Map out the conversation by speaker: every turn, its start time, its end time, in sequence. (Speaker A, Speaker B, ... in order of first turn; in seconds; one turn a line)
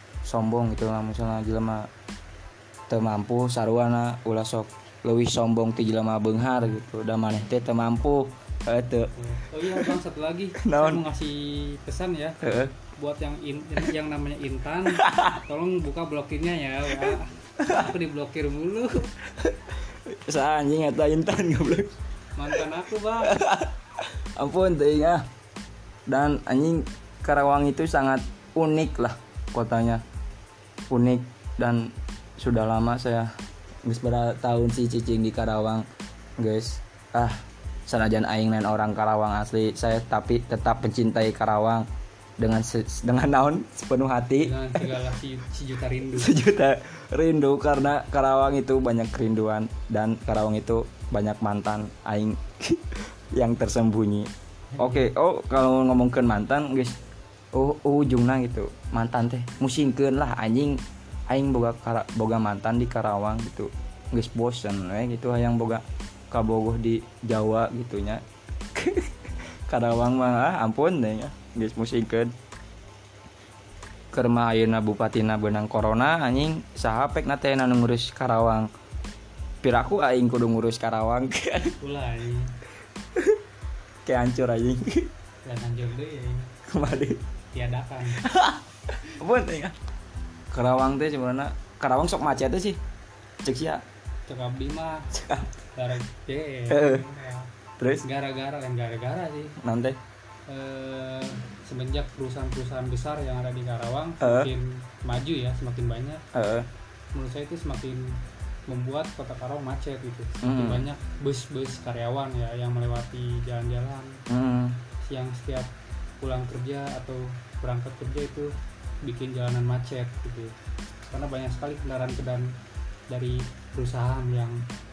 Speaker A: 0.2-1.9
Speaker A: 2.9-9.1
Speaker B: 9.2-12.4
Speaker A: 10.6-11.0
Speaker A: 12.4-12.7
Speaker B: 12.9-19.1
Speaker A: 14.9-15.4
Speaker A: 17.0-17.9
Speaker A: 19.4-21.9
Speaker B: 22.4-23.4
Speaker A: 23.2-25.2
Speaker A: 26.1-30.0
Speaker A: 30.9-33.3
Speaker A: 33.9-35.9
Speaker A: 36.4-41.9
Speaker A: 42.4-45.0
Speaker B: 44.4-46.3
Speaker A: 46.1-57.0
Speaker B: 54.7-55.1
Speaker A: 57.5-68.2
Speaker A: 68.8-72.3
Speaker A: 74.1-78.7
Speaker A: 79.6-81.8
Speaker B: 81.8-82.5
Speaker A: 84.1-85.1
Speaker B: 85.5-86.5
Speaker A: 86.7-87.2
Speaker B: 87.5-88.2
Speaker A: 88.2-89.8
Speaker A: 90.5-92.8
Speaker A: 93.4-93.8
Speaker B: 94.3-95.1
Speaker A: 95.1-95.5
Speaker B: 95.8-97.5
Speaker A: 96.7-97.0
Speaker A: 97.8-98.0
Speaker B: 98.0-99.6
Speaker A: 99.6-100.0
Speaker B: 100.5-106.2
Speaker A: 104.2-104.5
Speaker A: 106.3-106.7
Speaker B: 107.1-108.1
Speaker B: 108.7-114.2
Speaker A: 110.4-110.9
Speaker A: 114.3-114.8
Speaker B: 115.0-115.7
Speaker B: 116.2-118.5
Speaker B: 119.0-120.5
Speaker B: 121.1-122.5
Speaker B: 123.1-124.7